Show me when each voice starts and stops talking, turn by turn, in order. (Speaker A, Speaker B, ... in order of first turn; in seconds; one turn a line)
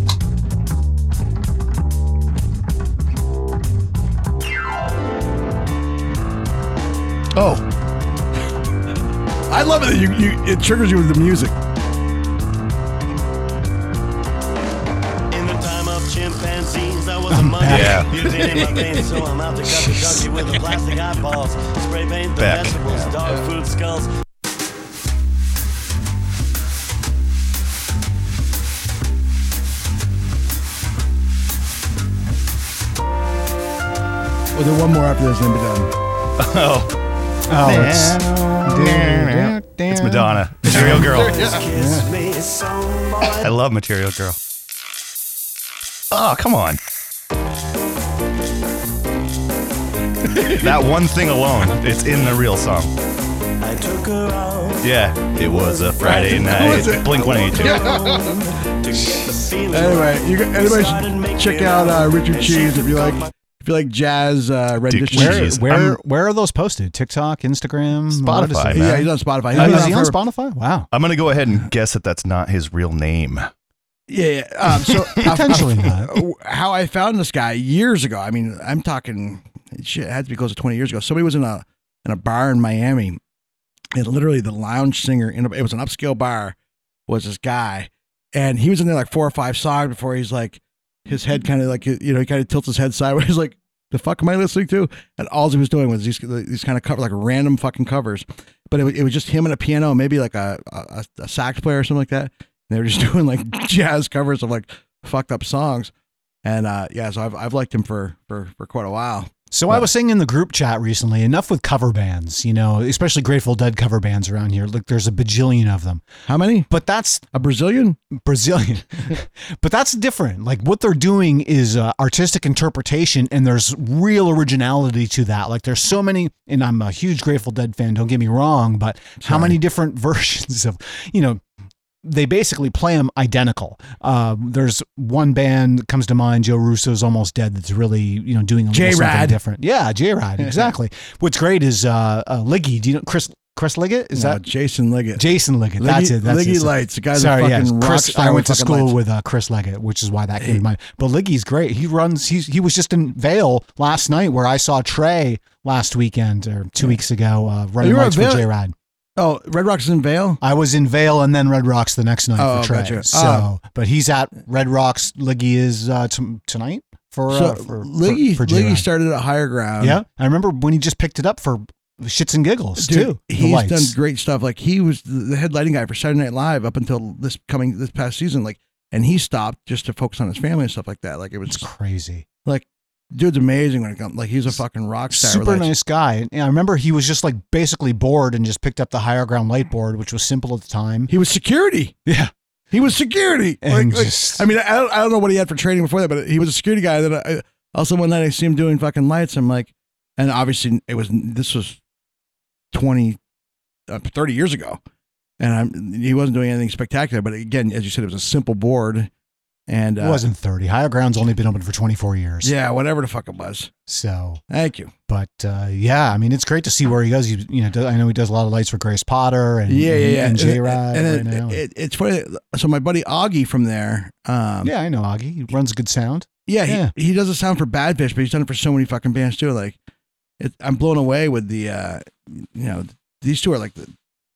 Speaker A: 7.3-7.6
Speaker B: 9.5-11.5
Speaker C: 15.3-24.1
Speaker D: 17.3-18.1
Speaker A: 17.6-18.2
Speaker A: 22.4-22.8
Speaker B: 34.5-35.9
Speaker A: 36.4-36.9
Speaker D: 37.5-41.0
Speaker A: 37.6-41.5
Speaker B: 40.6-41.6
Speaker C: 40.8-43.5
Speaker D: 41.7-42.1
Speaker A: 43.3-44.4
Speaker A: 46.1-46.8
Speaker B: 50.2-50.6
Speaker A: 50.4-52.9
Speaker C: 53.6-63.3
Speaker A: 54.8-58.0
Speaker B: 56.0-58.4
Speaker B: 59.7-65.5
Speaker A: 64.9-66.0
Speaker D: 65.1-70.9
Speaker A: 68.1-69.9
Speaker B: 68.7-70.2
Speaker A: 70.9-73.5
Speaker B: 74.1-83.2
Speaker D: 75.2-76.2
Speaker B: 83.9-86.5
Speaker B: 87.1-105.9
Speaker B: 106.4-109.9
Speaker D: 109.5-116.1
Speaker B: 116.3-116.7
Speaker D: 116.7-117.2
Speaker B: 117.3-118.0
Speaker D: 118.1-131.4
Speaker B: 129.2-129.6
Speaker D: 132.0-144.4
Speaker B: 138.7-139.4
Speaker B: 140.4-140.7
Speaker B: 144.1-145.2
Speaker D: 145.2-158.7
Speaker B: 145.8-149.0
Speaker B: 157.8-158.5
Speaker B: 159.2-160.4
Speaker D: 160.4-168.9
Speaker B: 162.4-163.5
Speaker B: 167.3-170.0
Speaker D: 169.8-173.9
Speaker B: 172.8-181.7
Speaker D: 181.5-182.2
Speaker B: 182.4-185.7
Speaker D: 185.1-191.1
Speaker B: 191.1-191.9
Speaker D: 192.1-192.3
Speaker B: 192.7-201.8
Speaker D: 193.6-194.4
Speaker B: 202.7-203.2
Speaker B: 203.9-204.8
Speaker B: 205.4-209.1
Speaker B: 209.7-210.2
Speaker D: 210.0-212.5
Speaker B: 212.4-213.7
Speaker D: 213.9-214.4
Speaker B: 214.5-214.9
Speaker D: 215.1-221.6
Speaker B: 219.7-224.7
Speaker D: 224.6-226.9
Speaker B: 226.5-229.8
Speaker B: 230.4-233.9